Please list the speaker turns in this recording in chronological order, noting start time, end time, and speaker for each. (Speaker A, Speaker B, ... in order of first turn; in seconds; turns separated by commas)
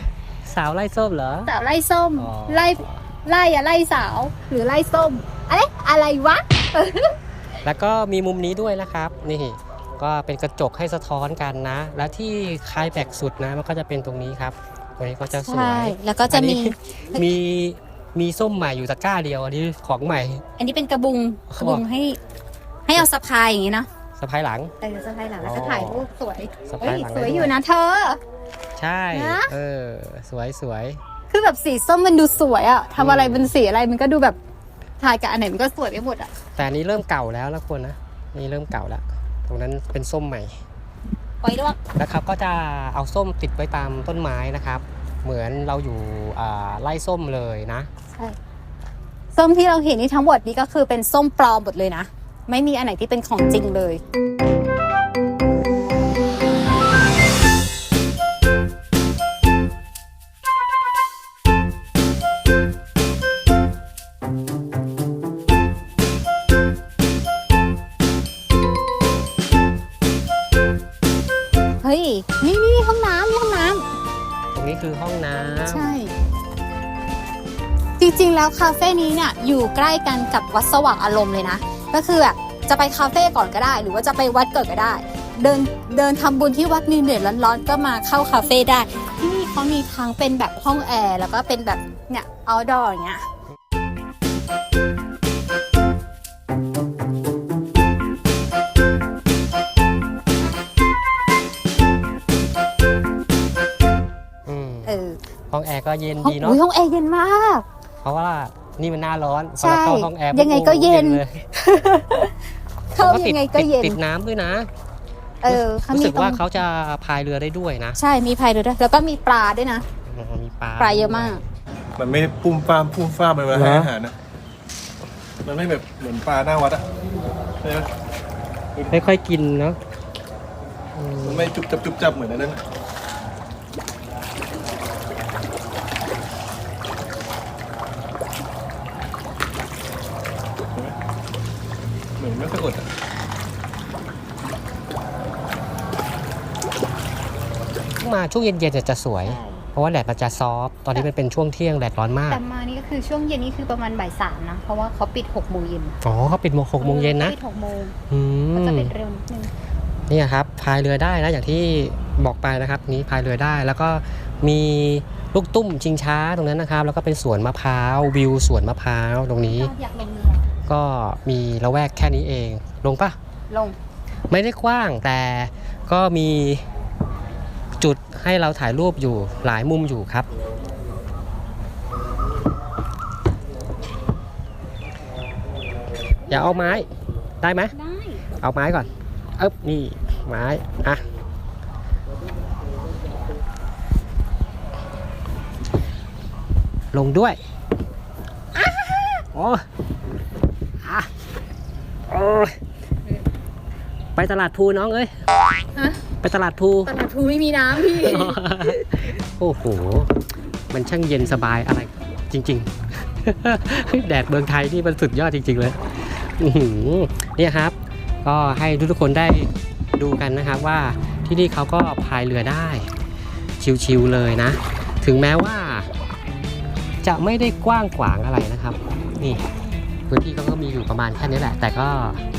Speaker A: 0.4-1.5, Speaker B: 1.5-7.2, Speaker A: 2.2-2.9, Speaker A: 7.6-20.4, Speaker B: 15.3-17.2, Speaker B: 20.6-22.2, Speaker A: 21.5-21.8, Speaker B: 22.9-23.9, Speaker A: 24.2-24.7, Speaker B: 24.8-28.2, Speaker A: 25.4-26.0, Speaker A: 26.7-27.5, Speaker A: 28.8-31.0, Speaker B: 29.1-29.5, Speaker B: 31.3-34.4, Speaker A: 33.0-33.5, Speaker B: 35.0-36.3, Speaker A: 36.5-40.5, Speaker B: 41.4-41.8, Speaker A: 41.9-47.9, Speaker B: 49.3-54.0, Speaker B: 71.8-73.8, Speaker A: 74.5-75.9, Speaker B: 75.6-76.1, Speaker B: 78.0-93.2, Speaker A: 104.5-105.0, Speaker B: 104.8-105.2, Speaker A: 105.5-106.6, Speaker B: 106.2-107.6, Speaker A: 108.0-111.4, Speaker B: 109.6-112.3, Speaker B: 112.9-114.0, Speaker A: 113.0-114.7, Speaker B: 115.4-116.4, Speaker A: 115.5-118.0, Speaker B: 118.0-119.8, Speaker A: 120.0-121.3, Speaker B: 120.8-121.4, Speaker C: 122.0-124.1, Speaker A: 123.5-123.9, Speaker C: 125.4-126.8, Speaker C: 127.6-127.9, Speaker A: 128.9-129.8, Speaker A: 130.9-131.5, Speaker C: 131.2-132.6, Speaker C: 142.2-142.8, Speaker A: 148.0-152.4, Speaker B: 149.2-149.7, Speaker B: 152.3-156.0, Speaker A: 156.0-157.3, Speaker B: 156.8-157.9, Speaker A: 158.1-158.9, Speaker B: 158.6-159.5, Speaker A: 160.1-169.7, Speaker B: 169.4-170.5, Speaker A: 170.7-173.2, Speaker B: 173.5-173.8, Speaker A: 174.3-176.6, Speaker A: 177.8-180.3, Speaker A: 186.3-186.9, Speaker A: 187.4-187.7, Speaker B: 187.7-188.2, Speaker A: 188.4-191.0, Speaker A: 196.9-197.4, Speaker B: 198.6-199.1, Speaker A: 199.3-199.6, Speaker A: 200.8-201.1, Speaker A: 202.1-202.6, Speaker A: 204.2-205.1, Speaker B: 205.7-206.0, Speaker A: 206.2-206.9, Speaker B: 206.8-209.0, Speaker A: 207.9-210.1, Speaker A: 210.7-222.9, Speaker A: 223.6-225.9, Speaker A: 227.0-229.4, Speaker A: 230.1-232.2